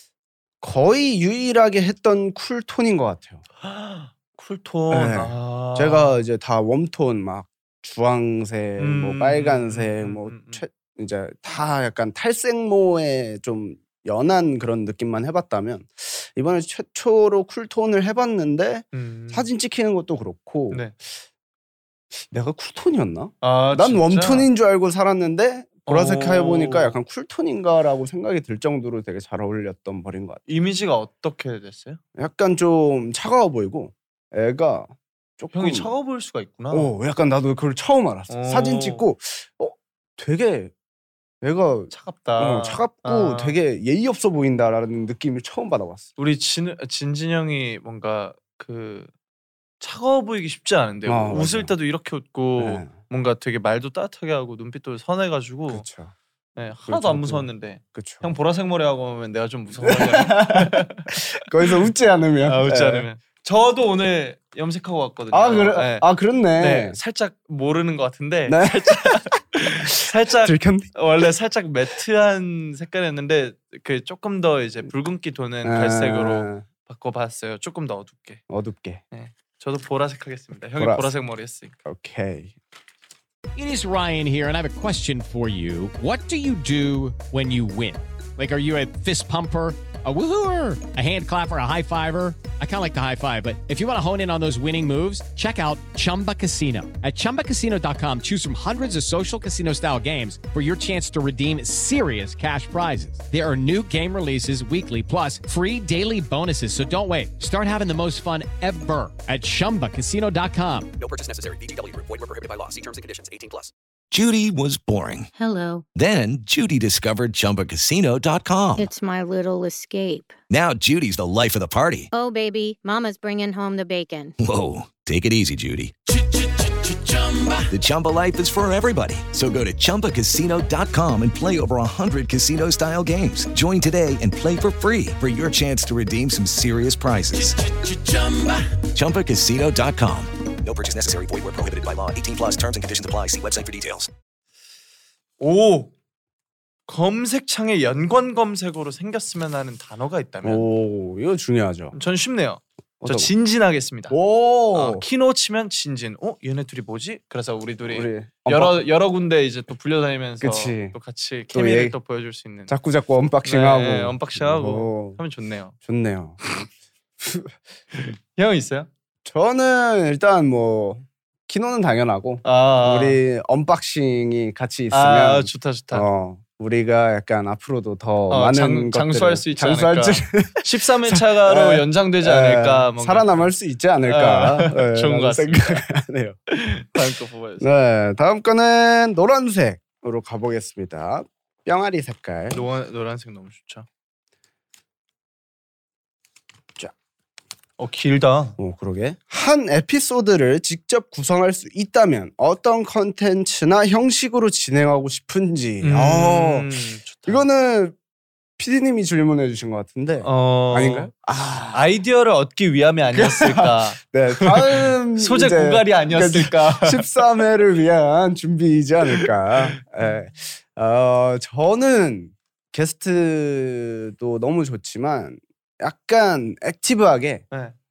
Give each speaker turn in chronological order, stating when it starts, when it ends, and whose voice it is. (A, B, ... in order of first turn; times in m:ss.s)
0:00.6-0:03.4 A
0:03.6-0:06.2 B
0:04.9-0:20.9 A
0:08.8-0:10.6 B
0:18.9-0:19.5 B
0:22.2-0:30.4 A
0:23.4-0:24.5 B
0:25.8-0:27.0 B
0:30.5-0:32.0 B
0:32.2-0:35.9 A
0:35.5-0:36.9 B
0:36.7-0:40.7 A
0:38.3-0:39.0 B
0:41.4-0:46.1 A
0:41.9-0:43.6 B
0:46.2-0:49.1 B
0:49.8-0:55.8 B
0:51.0-0:51.7 A
0:52.6-0:52.9 A
0:55.7-0:56.1 A
0:56.6-1:01.1 B
0:56.8-0:58.3 A
0:59.8-1:03.1 A
1:02.4-1:18.4 B
1:05.3-1:07.0 A
1:08.5-1:11.0 A
1:15.6-1:16.6 A
1:18.5-1:19.0 A
1:19.1-1:21.8 B
1:20.8-1:21.1 A
1:21.8-1:22.5 A
1:23.5-1:50.9 C
1:51.0-1:53.7 D
1:54.1-1:55.3 E
1:55.3-1:55.8 F
1:55.9-1:58.9 E
1:58.8-2:00.4 F
2:00.5-2:02.1 E
2:02.1-2:04.3 F
2:04.4-2:06.0 E
2:06.1-2:07.7 D
2:07.7-2:17.5 E
2:17.3-2:18.8 D
2:18.9-2:20.3 E
2:20.6-2:24.1 D
2:25.4-2:25.9 B
2:26.9-2:30.7 B
2:30.4-2:31.9 A
2:31.9-2:34.2 B
2:33.0-2:33.3 A
2:34.1-2:35.0 A
2:34.7-2:42.7 B
2:37.9-2:38.8 A
2:40.4-2:41.0 A
2:41.5-2:42.0 A
2:42.7-2:45.2 A
2:43.4-2:45.7 B
2:45.8-2:46.6 A
2:47.2-2:47.5 A
2:47.9-2:48.9 B
2:49.2-3:06.4 A
2:52.4-2:53.2 B
2:54.9-2:56.1 B
2:58.3-3:03.5 B
3:04.1-3:05.8 B
3:06.5-3:07.7 B
3:07.6-3:12.6 A
3:12.5-3:13.8 B
3:17.8-3:18.6 B
3:18.6-3:26.7 A
3:25.8-3:27.4 B
3:27.2-3:27.9 A
3:28.6-3:31.8 A
3:30.2-3:31.1 B
3:31.7-3:37.2 B
3:33.1-3:47.4 A
3:39.0-3:40.1 B